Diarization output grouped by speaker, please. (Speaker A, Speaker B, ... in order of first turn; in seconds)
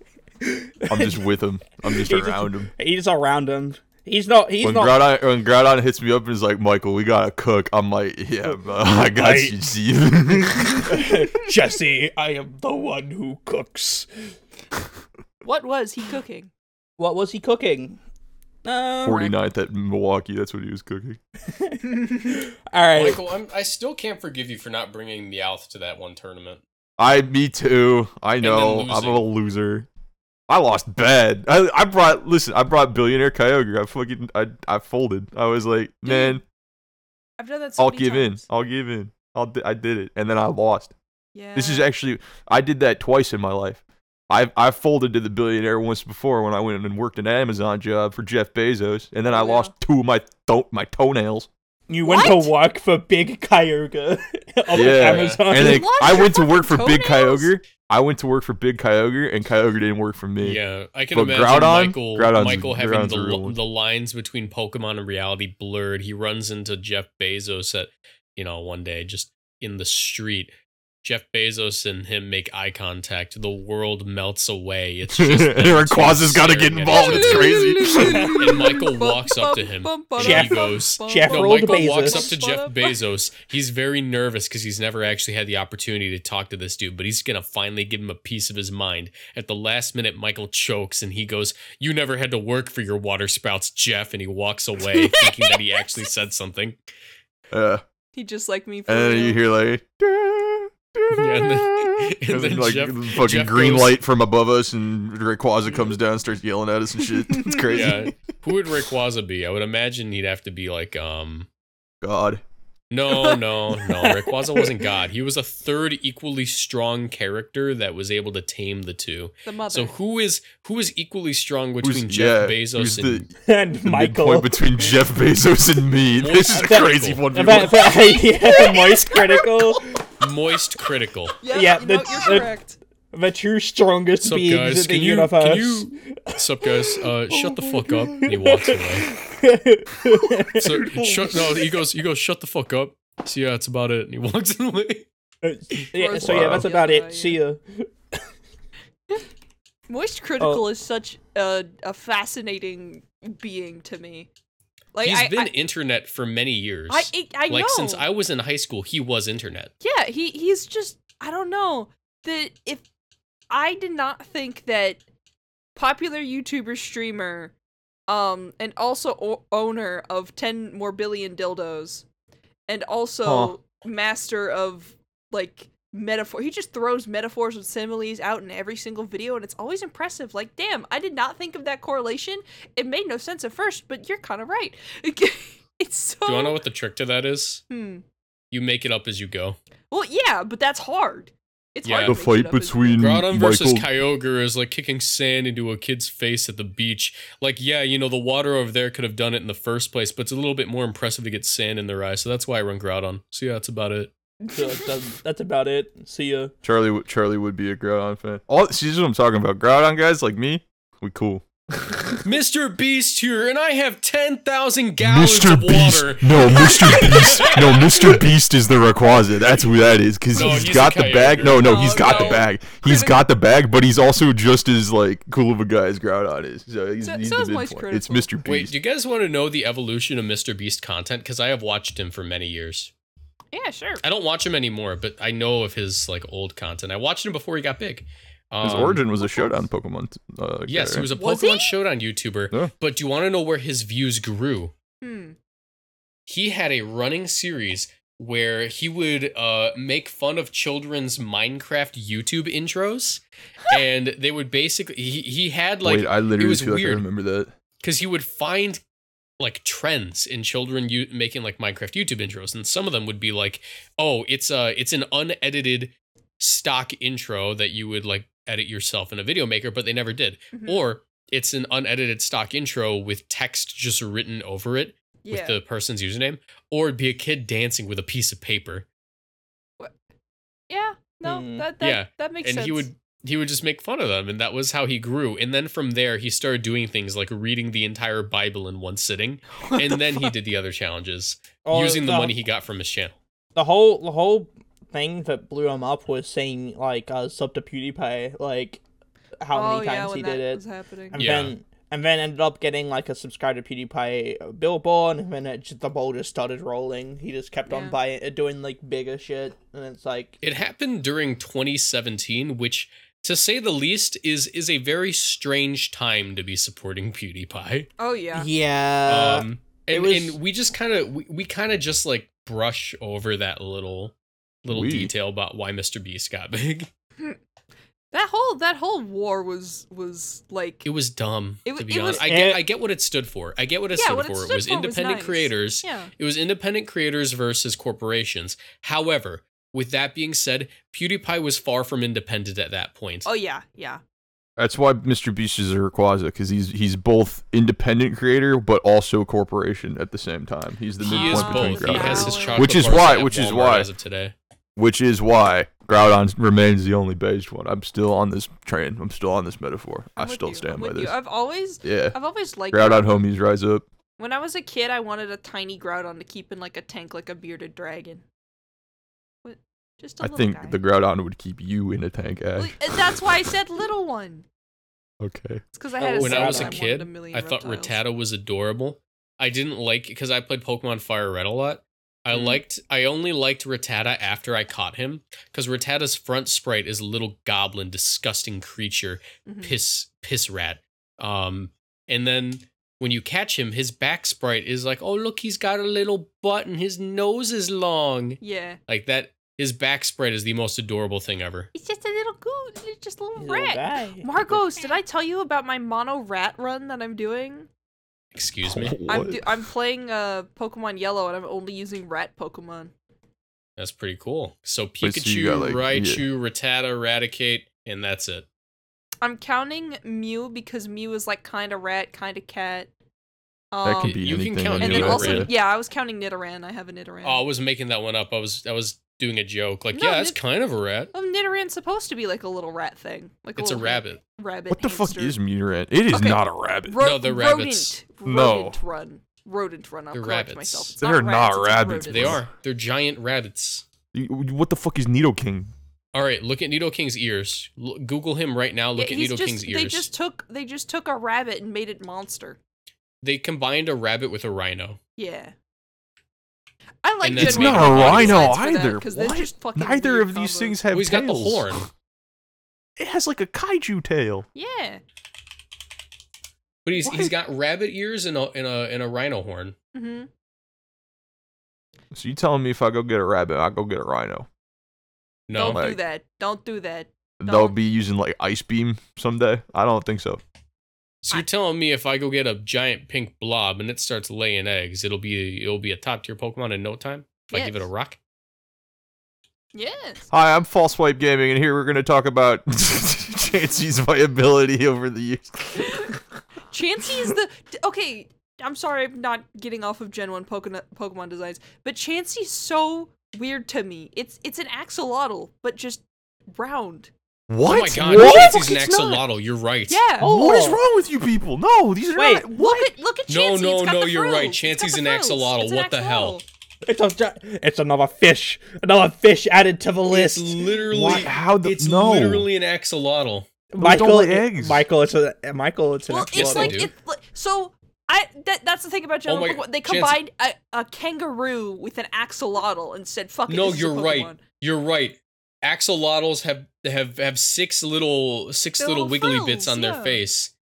Speaker A: 0.4-1.2, 1.8-5.0, 9.1-9.6, 10.3-14.1, 17.0-18.0, 18.6-19.3, 21.5-23.2, 51.9-56.3, 78.1-78.6, 80.2-82.3, 114.0-114.7, 123.4-124.6, 126.5-130.0, 131.5-132.5, 133.1-136.7, 137.3-140.7, 145.4-147.9, 150.4-150.6, 204.5-206.5, 281.2-281.7, 291.6-292.3, 293.5-298.8, 299.4-310.4, 318.3-320.4, 332.2-332.6, 376.0-376.8, 403.4-404.6, 510.2-510.8, 512.1-512.5, 516.8-521.2, 523.7-526.8
Speaker B: 0.9-2.7, 4.6-11.1, 19.0-21.2, 27.0-29.9, 30.5-36.4, 37.8-40.9, 41.5-51.5, 54.7-60.6, 61.1-63.6, 75.1-78.3, 97.5-97.8, 98.9-108.1, 112.0-112.4, 121.8-123.3, 123.8-128.8, 140.6-141.7, 146.2-146.7, 173.2-173.5, 192.1-193.9, 206.6-212.2, 215.0-228.7, 238.6-241.1, 255.8-257.5, 324.7-325.1, 344.6-353.9, 354.8-361.1, 361.8-362.2, 362.7-363.8, 370.2-373.0, 375.2-375.6, 408.6-409.7, 415.0-416.2, 423.8-425.5, 434.7-437.0, 438.2-438.8, 441.0-442.4, 444.1-445.7, 457.3-461.9, 463.0-464.4, 467.0-467.3, 472.1-474.5, 475.7-476.0, 477.4-480.4, 490.3-496.2, 507.5-509.2, 510.2-512.9, 520.9-522.5, 523.8-524.8
Speaker C: 15.4-16.5, 19.1-19.3, 36.0-36.4, 37.4-38.4, 41.3-41.9, 49.3-49.7, 52.0-52.5, 55.5-57.5, 76.9-83.0, 95.0-96.0, 98.1-99.4, 107.5-107.9, 119.4-119.9, 127.9-129.3, 131.4-132.8, 145.9-147.4, 149.9-154.3, 154.9-155.5, 156.9-158.1, 159.8-162.8, 163.5-165.0, 165.8-167.5, 168.1-172.0, 172.7-186.6, 187.7-188.0, 189.9-193.1, 204.4-204.8, 216.7-217.6, 220.3-220.7, 221.5-223.2, 227.0-228.3, 233.5-234.0, 239.2-239.5, 241.1-241.8, 245.0-245.3, 270.5-270.8, 275.2-275.6, 280.7-282.9, 289.6-290.3, 299.5-301.2, 307.7-308.0, 318.0-318.5, 328.1-330.9, 331.6-332.2, 333.9-336.1, 343.2-344.0, 351.0-353.0, 360.2-363.2, 364.2-368.2, 369.4-370.8, 372.6-374.4, 375.7-378.0, 382.3-382.6, 389.4-389.8, 398.4-398.8, 401.7-407.7, 409.1-412.9, 419.2-422.9, 423.7-424.2, 424.7-427.4, 429.9-430.4, 431.1-435.4, 436.1-442.4, 449.0-452.6, 455.2-455.5, 457.0-460.8, 464.5-465.0, 469.9-470.3, 475.5-477.8, 487.5-487.9, 489.7-490.3, 495.8-496.1, 496.7-506.0, 506.5-507.1, 508.1-508.5, 509.9-510.3, 512.5-516.4, 526.1-534.4, 538.8-540.2
Speaker D: 22.9-26.6, 28.4-29.2, 54.8-55.4, 60.4-70.5, 71.0-96.8, 101.1-104.0, 107.7-111.5, 112.9-123.3, 126.2-127.3, 130.2-131.4, 134.2-139.1, 140.5-145.1, 155.0-159.7, 186.2-187.6, 188.5-189.6, 191.8-192.2, 193.0-204.1, 212.2-218.2, 220.3-222.5, 228.4-232.9, 234.0-239.0, 240.7-244.7, 246.2-257.0, 257.8-258.8, 259.4-278.9, 281.8-293.1, 301.1-301.5, 310.4-317.9, 319.1-326.9, 330.8-343.3, 351.0-354.3, 376.2-401.7, 408.3-409.0, 413.8-418.4, 424.0-425.5, 427.2-431.1, 433.6-434.2, 437.0-438.0, 440.1-440.9, 442.0-443.8, 446.1-450.1, 453.2-455.0, 457.2-458.6, 460.9-461.9, 466.8-469.8, 475.5-475.8, 481.2-488.2, 507.6-510.0, 513.3-516.4, 520.1-523.5, 526.3-526.9, 529.3-530.2, 533.5-540.5